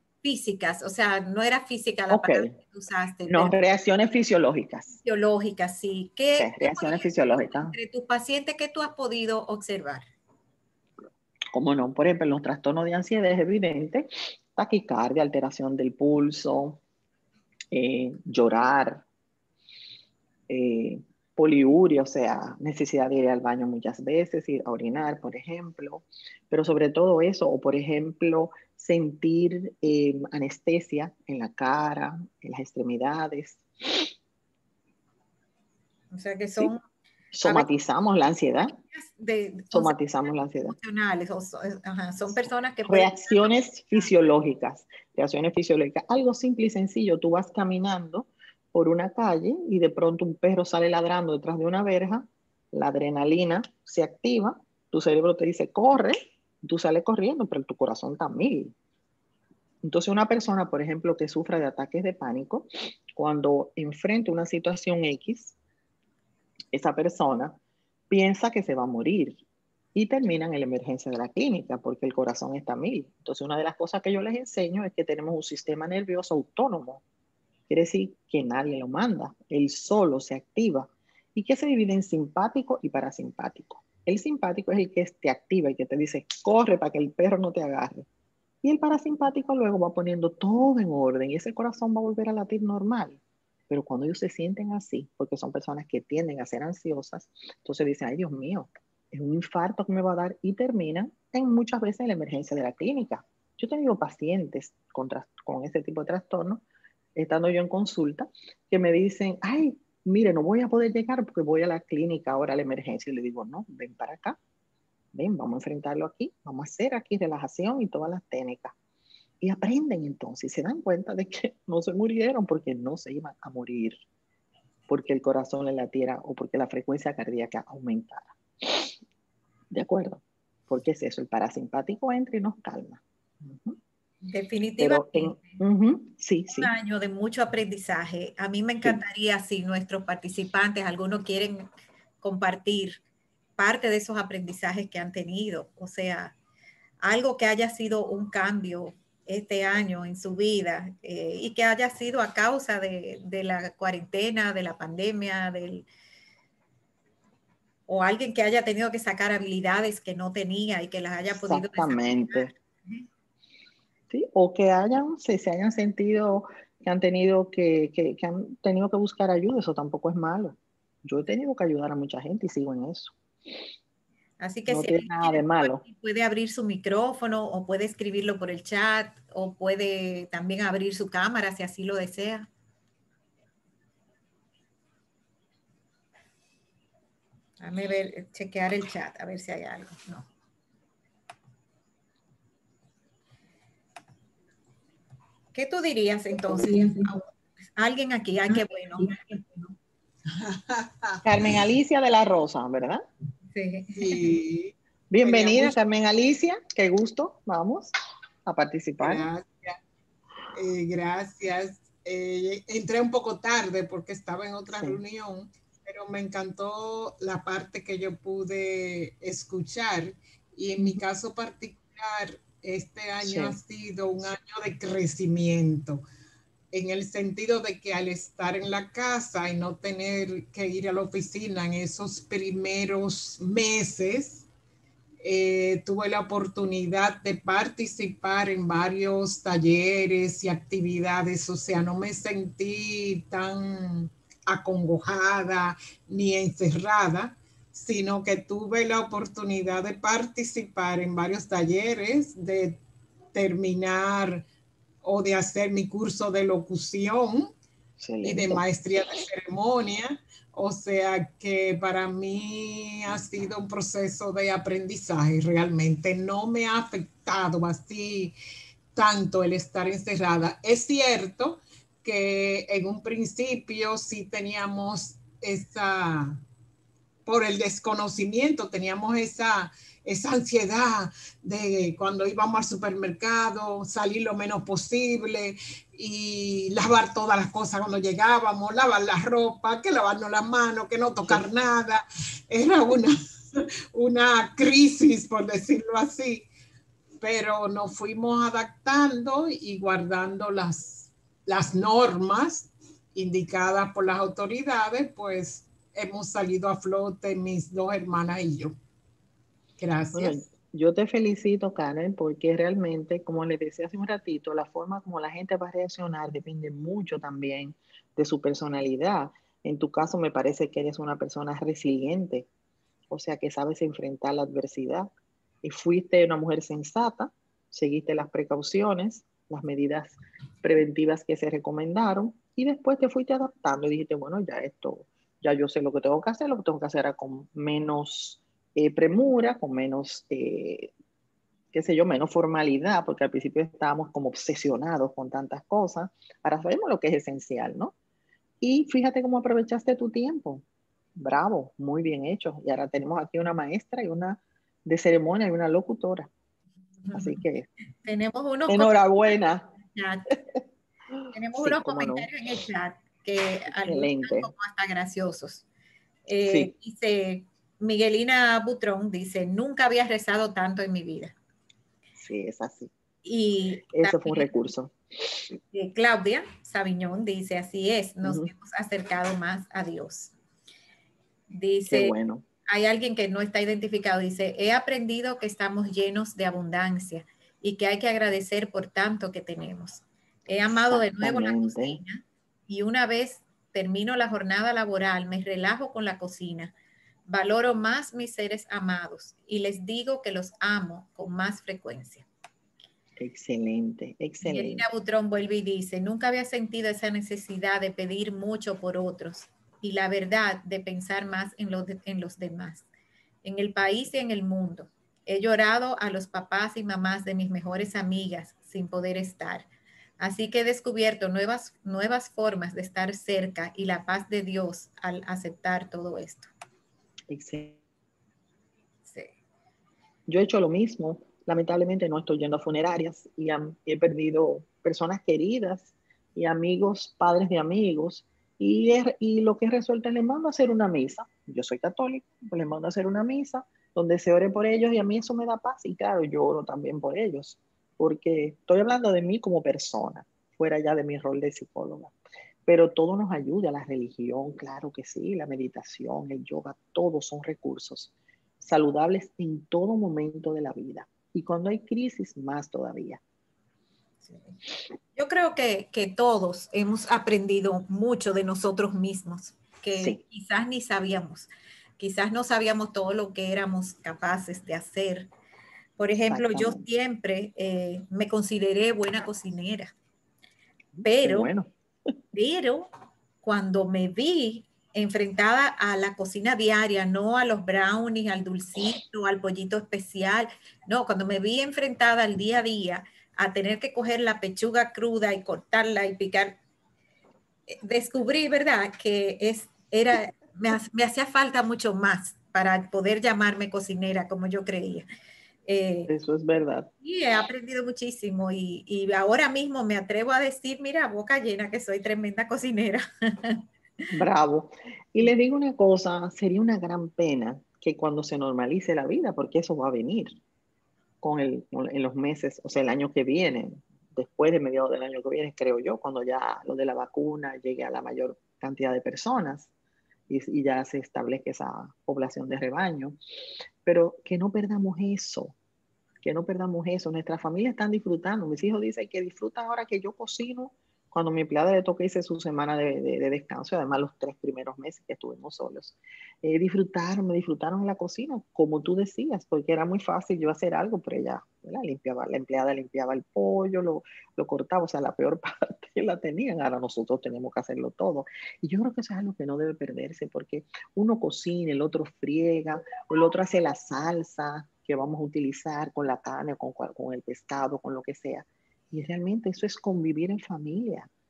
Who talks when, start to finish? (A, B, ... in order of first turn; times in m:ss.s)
0:00.2-0:03.6 A
0:02.1-0:02.5 B
0:03.3-0:05.0 B
0:05.0-0:10.1 A
0:06.4-0:07.8 B
0:11.5-0:16.8 B
0:17.7-0:19.0 B
0:20.5-0:34.1 B
0:36.1-0:36.8 A
0:37.3-0:38.8 B
0:38.6-0:44.1 A
0:39.7-0:40.8 B
0:42.9-0:58.7 B
0:59.8-1:05.6 B
1:06.7-1:07.6 B
1:08.1-1:09.4 B
1:10.0-1:17.0 B
1:17.7-1:28.1 B
1:28.6-1:46.6 B
1:47.2-1:54.4 B
1:55.1-1:58.8 B
1:59.4-2:04.0 B
2:04.9-2:09.0 B
2:09.7-2:13.8 B
2:14.2-2:15.6 A
2:14.8-2:16.7 B
2:16.5-2:21.7 A
2:22.2-2:23.0 A
2:23.6-2:26.3 A
2:27.0-2:35.9 A
2:37.9-2:43.1 A
2:41.3-2:42.5 B
2:44.1-2:53.2 B
2:54.4-3:02.5 A
2:54.7-2:55.8 B
3:07.6-3:10.3 A
3:15.5-3:19.2 A
3:16.3-3:17.1 B
3:19.0-3:19.7 B
3:20.4-3:21.2 C
3:21.2-3:23.0 B
3:23.5-3:24.4 A
3:24.0-3:25.7 C
3:25.1-3:27.9 B
3:28.5-3:29.3 B
3:29.0-3:29.8 C
3:30.5-3:46.0 C
3:34.7-3:35.0 B
3:43.2-3:43.6 B
3:46.7-3:54.4 C
3:55.2-4:12.8 C
4:13.3-4:14.4 C
4:15.0-4:17.5 C
4:18.0-4:18.6 B
4:18.2-4:28.4 C
4:29.0-4:36.4 C
4:37.3-4:56.5 C
4:57.2-5:08.8 C
5:09.8-5:10.4 C
5:10.1-5:22.5 B
5:23.1-5:25.1 B
5:25.6-5:40.9 B
5:41.7-5:47.9 B
5:48.6-5:50.6 B
5:51.2-5:56.3 B
5:57.1-5:57.7 B
5:58.0-5:59.2 A
5:58.7-5:59.7 B
5:59.8-6:00.4 A
6:01.3-6:05.6 A
6:01.5-6:02.3 B
6:03.8-6:04.5 B
6:06.3-6:11.3 A
6:06.4-6:06.7 B
6:12.2-6:12.9 B
6:13.2-6:14.5 A
6:13.9-6:15.4 B
6:15.7-6:20.3 A
6:18.2-6:18.5 B
6:21.5-6:22.2 A
6:21.9-6:22.4 B
6:22.7-6:36.7 A
6:30.7-6:32.0 B
6:37.3-6:42.3 A
6:43.2-6:44.8 B
6:44.4-6:52.9 A
6:53.4-6:59.7 A
7:00.2-7:06.5 A
7:07.3-7:07.8 B
7:09.1-7:09.3 A
7:10.3-7:32.1 B
7:32.7-7:43.2 B
7:44.2-7:44.6 A
7:45.2-7:55.3 A
7:56.0-7:59.9 A
7:56.3-7:56.8 B
8:00.9-8:01.7 B
8:01.0-8:01.5 A
8:02.3-8:02.9 A
8:03.4-8:16.6 A
8:17.7-8:25.1 A
8:25.7-8:26.1 A
8:26.1-8:26.9 B
8:27.0-8:33.6 A
8:34.1-8:40.4 B
8:41.2-8:49.7 B
8:50.3-8:53.2 B
8:53.8-8:55.6 B
8:56.2-9:31.1 B